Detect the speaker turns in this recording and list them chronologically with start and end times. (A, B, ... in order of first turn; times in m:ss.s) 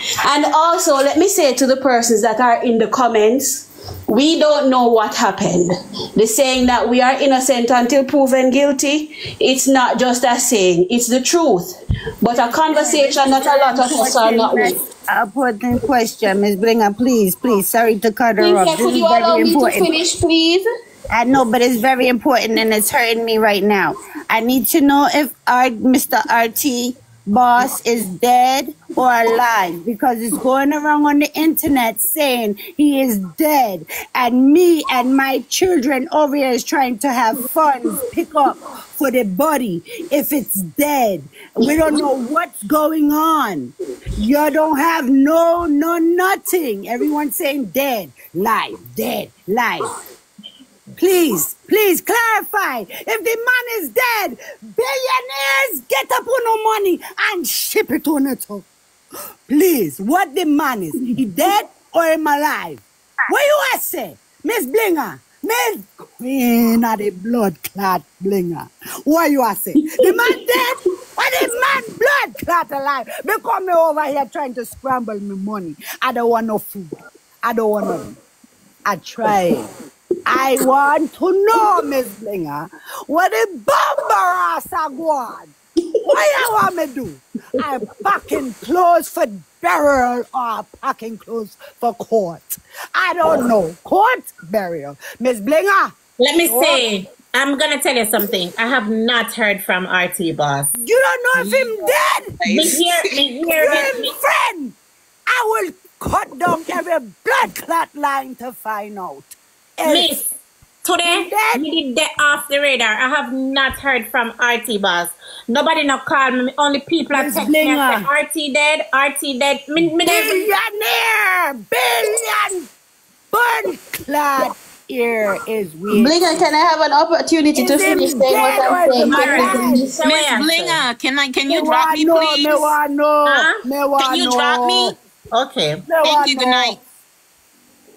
0:00.2-0:14.8 A
0:12.6-0:20.0 B
0:18.4-0:20.6 A
0:21.1-0:49.9 B
0:51.0-0:58.7 B
0:59.5-1:16.9 B
1:17.4-1:18.2 B
1:18.8-1:19.7 B
1:20.2-1:25.5 B
1:26.1-1:35.9 B
1:36.2-1:40.7 C
1:36.4-1:36.8 B
1:40.8-1:42.4 B
1:41.3-1:43.1 D
1:42.4-1:44.1 C
1:43.4-1:44.8 B
1:45.3-1:50.2 B
1:49.8-1:50.3 C
1:50.8-2:00.5 C
1:51.0-1:51.6 B
1:57.1-1:58.1 B
2:00.0-2:02.7 B
2:03.3-2:06.5 B
2:05.9-2:09.9 A
2:07.5-2:09.9 B
2:09.0-2:10.8 C
2:10.0-2:12.8 D
2:11.4-2:15.0 B
2:13.2-2:13.6 C
2:14.0-2:14.9 D
2:15.3-2:15.9 C
2:15.9-2:16.8 B
2:16.0-2:16.8 D